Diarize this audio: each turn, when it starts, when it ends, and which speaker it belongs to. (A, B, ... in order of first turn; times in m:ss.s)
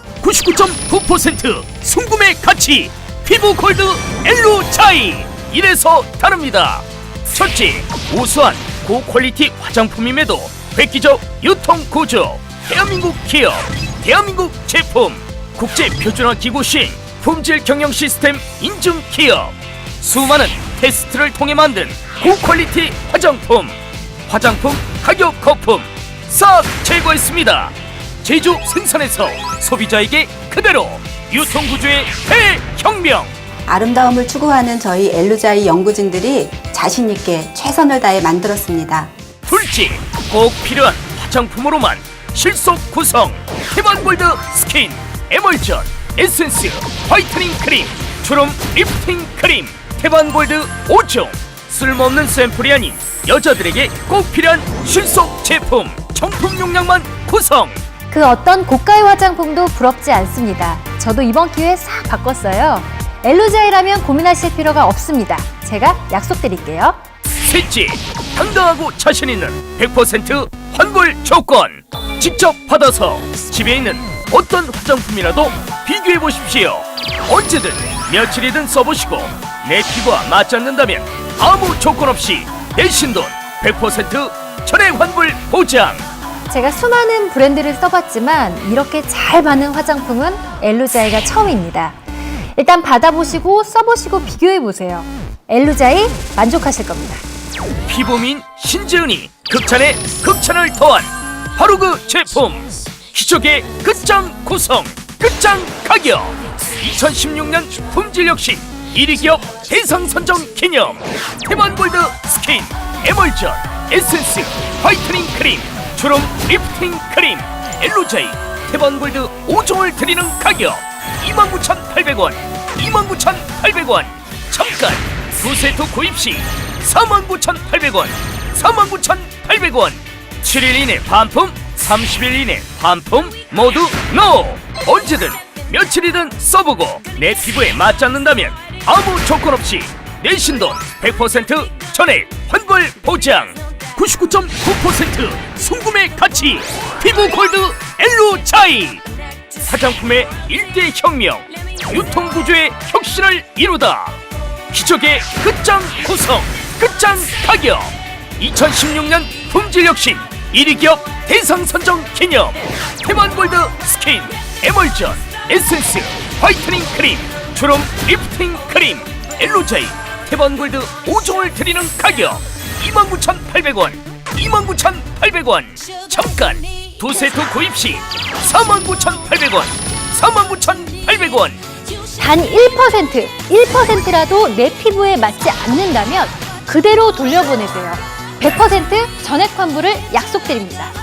0:00.2-0:23.8 A
0:24.3-0:33.3 A
0:33.7-0:39.1 B
0:39.5-0:57.8 A
0:58.1-1:07.0 C
1:07.4-1:26.0 A
1:26.5-1:32.0 C
1:32.6-1:37.2 C
1:37.9-2:29.0 A
2:29.6-2:34.2 A
2:34.7-3:01.6 A
3:02.2-3:10.9 C